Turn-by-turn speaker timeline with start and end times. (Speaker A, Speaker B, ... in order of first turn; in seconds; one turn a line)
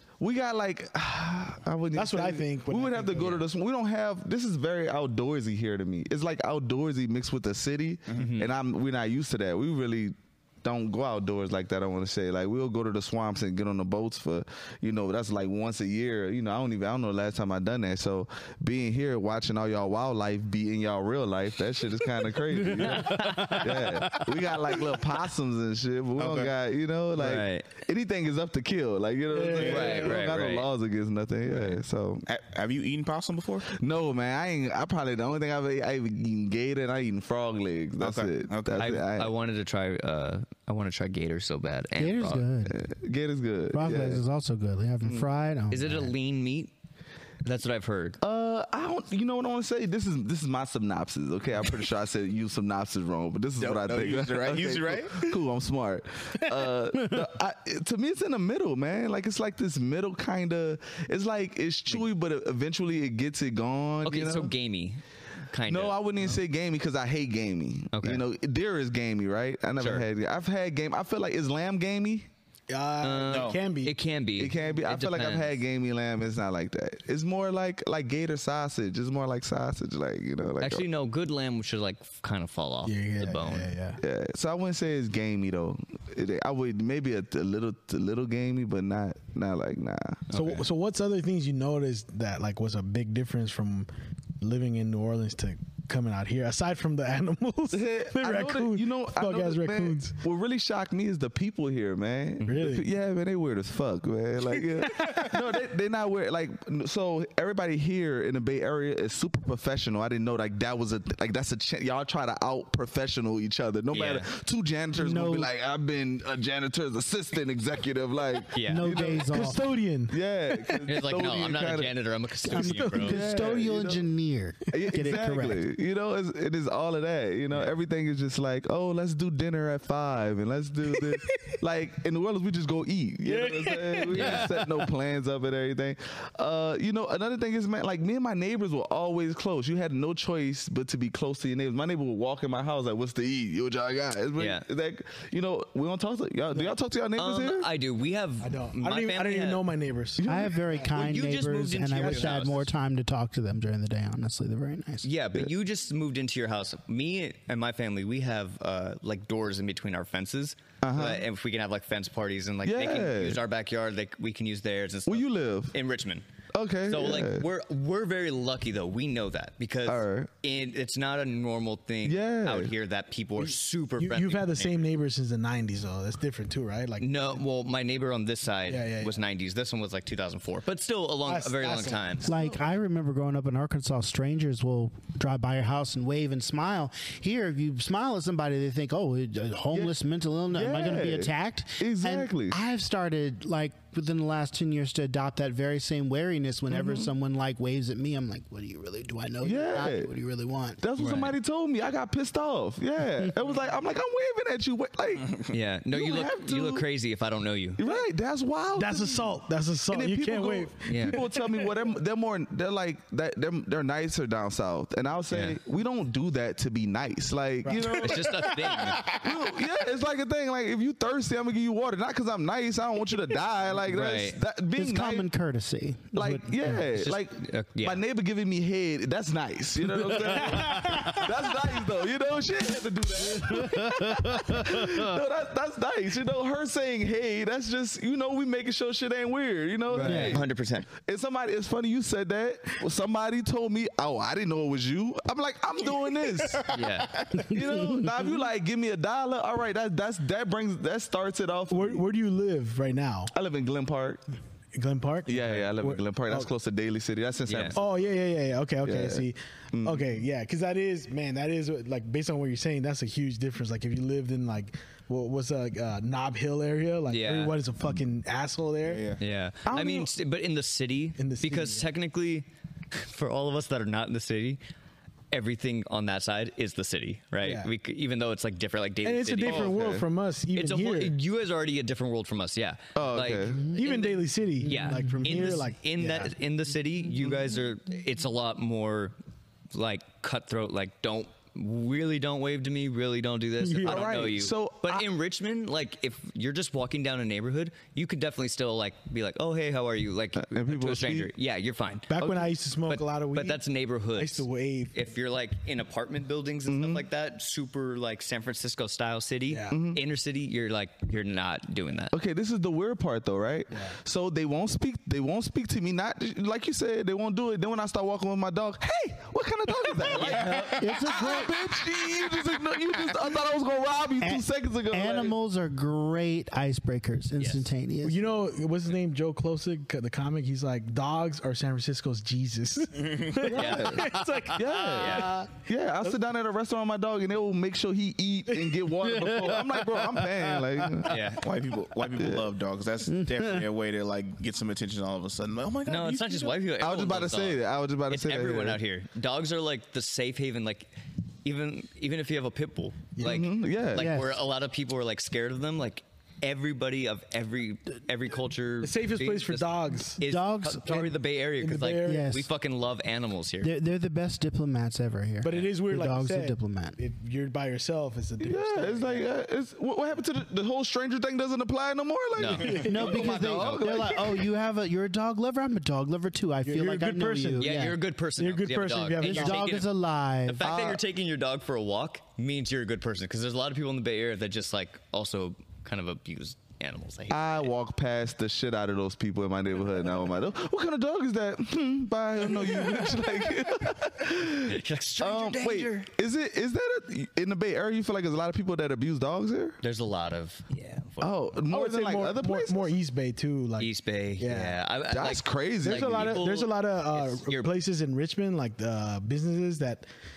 Speaker A: 0.2-32.2
Speaker B: 1.9-3.5
Speaker C: 8.1-8.5
Speaker C: 22.8-23.6
Speaker D: 26.2-26.5
Speaker C: 27.1-27.7
Speaker B: 29.3-30.2
Speaker D: 29.5-30.0
Speaker C: 29.6-30.7
Speaker D: 31.5-33.7
Speaker A: 33.7-39.3
Speaker D: 38.0-38.9
Speaker C: 38.8-42.5
Speaker E: 42.0-42.8
Speaker A: 42.7-44.2
Speaker E: 43.7-46.1
Speaker C: 45.7-46.7
Speaker C: 47.4-48.2
Speaker A: 48.2-64.5
Speaker D: 53.6-55.4
Speaker C: 64.0-66.0
Speaker A: 65.7-72.3
Speaker C: 67.9-68.2
Speaker C: 69.8-70.0
Speaker B: 72.7-74.0
Speaker C: 73.0-75.6
Speaker D: 73.3-73.6
Speaker A: 74.4-80.8
Speaker C: 80.6-83.7
Speaker B: 82.8-84.0
Speaker A: 84.0-90.3
Speaker C: 90.3-90.7
Speaker B: 90.3-93.9
Speaker B: 94.4-100.2
Speaker A: 97.7-119.6
Speaker B: 102.4-102.8
Speaker B: 104.8-105.6
Speaker C: 113.9-114.3
Speaker E: 115.0-115.5
Speaker C: 118.5-118.9
Speaker E: 118.7-119.6
Speaker B: 118.9-120.8
Speaker A: 120.1-122.0
Speaker C: 120.8-123.2
Speaker E: 122.4-125.6
Speaker B: 122.5-123.7
Speaker A: 123.0-124.1
Speaker A: 124.7-147.7
Speaker B: 131.0-131.5
Speaker B: 133.2-134.8
Speaker C: 134.1-134.5
Speaker C: 144.4-144.6
Speaker C: 147.2-149.6
Speaker B: 148.4-150.9
Speaker A: 150.2-150.8
Speaker E: 150.2-155.1
Speaker C: 150.9-152.7
Speaker B: 152.0-152.4
Speaker C: 155.0-166.2
Speaker A: 160.8-161.2
Speaker A: 162.6-163.4
Speaker A: 165.1-165.8
Speaker A: 166.5-167.4
Speaker C: 166.9-174.9
Speaker A: 169.8-170.3
Speaker A: 172.0-172.7
Speaker B: 173.4-177.4
Speaker C: 177.0-182.3
Speaker B: 178.6-179.2
Speaker B: 181.2-182.6
Speaker E: 182.2-200.8
Speaker A: 190.5-192.6
Speaker A: 196.7-197.1
Speaker A: 199.4-200.1
Speaker A: 200.8-206.8
Speaker C: 201.0-201.3
Speaker C: 205.5-207.8
Speaker A: 207.8-218.5
Speaker B: 208.8-211.8
Speaker C: 210.8-211.2
Speaker C: 215.3-215.6
Speaker B: 217.6-218.1
Speaker C: 217.9-219.1
Speaker D: 218.8-219.3
Speaker A: 219.1-225.3
Speaker C: 223.8-224.4
Speaker E: 224.7-226.8
Speaker A: 226.1-240.4
Speaker C: 226.9-228.0
Speaker E: 230.0-231.2
Speaker B: 230.3-231.2
Speaker E: 233.2-235.2
Speaker C: 239.9-240.9
Speaker E: 240.0-240.4
Speaker A: 241.0-246.7
Speaker D: 246.5-247.4
Speaker C: 246.7-247.2
Speaker A: 247.4-252.0
Speaker E: 247.5-248.2
Speaker B: 251.7-253.3
Speaker A: 253.3-254.2
Speaker B: 254.7-256.5
Speaker A: 255.3-258.0
Speaker C: 257.4-257.8
Speaker B: 257.7-269.1
Speaker A: 258.8-260.1
Speaker C: 267.1-267.6
Speaker D: 268.8-269.2
Speaker C: 269.2-274.6
Speaker A: 269.6-270.1
Speaker B: 271.2-271.9
Speaker C: 275.3-279.8
Speaker B: 277.4-277.7
Speaker B: 279.0-281.1
Speaker A: 279.4-280.1
Speaker C: 280.5-289.1
Speaker A: 282.9-283.7
Speaker B: 283.7-286.3
Speaker E: 284.6-285.2
Speaker C: 289.7-302.1
Speaker B: 293.6-294.3
Speaker A: 293.8-295.1
Speaker A: 300.4-301.3
Speaker B: 302.1-304.9
Speaker A: 302.2-302.5
Speaker C: 302.9-312.1
Speaker A: 306.7-307.0
Speaker B: 309.5-309.8
Speaker A: 309.7-310.0
Speaker A: 312.1-325.3
Speaker C: 320.0-320.8
Speaker D: 320.1-321.3
Speaker E: 320.8-321.8
Speaker E: 324.2-328.3
Speaker C: 327.4-327.7
Speaker B: 328.0-336.2
Speaker D: 333.0-333.5
Speaker C: 333.5-334.2
Speaker A: 333.5-341.3
Speaker C: 334.9-335.3
Speaker C: 341.0-341.4
Speaker D: 341.4-346.6
Speaker A: 342.1-342.4
Speaker E: 343.1-343.6
Speaker C: 345.9-350.9
Speaker A: 346.8-348.8
Speaker C: 351.4-363.8
Speaker B: 353.2-353.4
Speaker A: 353.2-354.1
Speaker E: 353.9-354.4
Speaker B: 358.8-360.2
Speaker E: 360.2-361.0
Speaker B: 360.9-362.4
Speaker E: 362.0-362.5
Speaker E: 363.6-367.0
Speaker B: 365.4-369.3
Speaker A: 368.4-374.4
Speaker C: 372.4-374.2
Speaker B: 372.6-373.2
Speaker E: 372.9-378.0
Speaker B: 376.6-379.8
Speaker C: 377.6-379.9
Speaker E: 379.2-380.6
Speaker C: 380.4-387.7
Speaker A: 380.6-381.0
Speaker A: 387.3-399.8
Speaker C: 394.5-396.1
Speaker C: 399.8-401.6
Speaker A: 401.2-402.9
Speaker B: 401.7-404.8
Speaker C: 403.8-407.7
Speaker A: 405.1-406.4
Speaker B: 405.8-410.1